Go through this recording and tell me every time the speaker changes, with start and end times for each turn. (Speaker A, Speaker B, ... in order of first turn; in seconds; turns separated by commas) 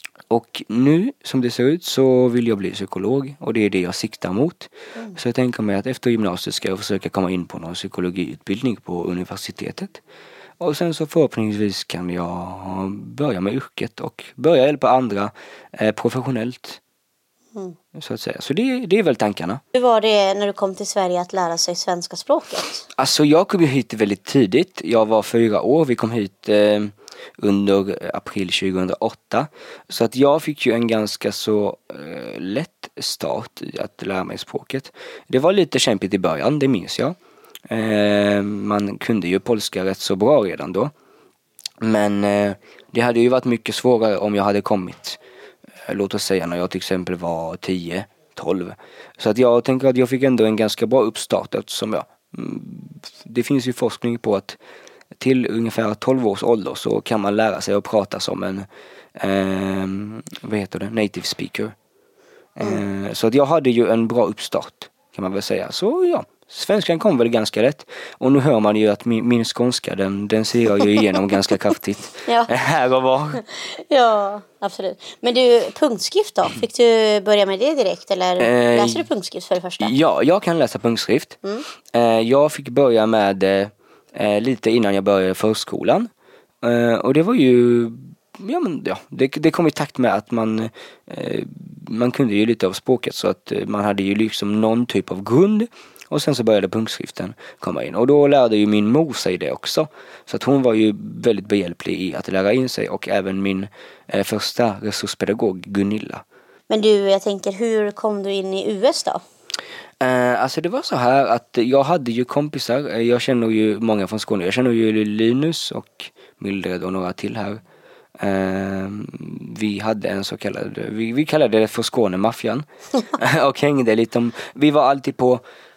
Speaker A: 0.3-10.0, Speaker A: 10.6-16.8, Speaker A: 17.9-19.6, Speaker B: 19.7-22.8, Speaker A: 22.9-37.2, Speaker A: 37.7-40.9, Speaker A: 41.8-45.2, Speaker A: 45.9-54.6, Speaker A: 55.2-58.7, Speaker A: 59.2-61.7, Speaker A: 62.6-73.4, Speaker B: 72.2-72.5, Speaker B: 73.3-79.9, Speaker A: 78.4-79.0, Speaker A: 79.8-81.4, Speaker A: 81.9-86.1, Speaker A: 86.6-106.2, Speaker B: 106.7-109.2, Speaker A: 110.0-117.6, Speaker A: 118.2-125.4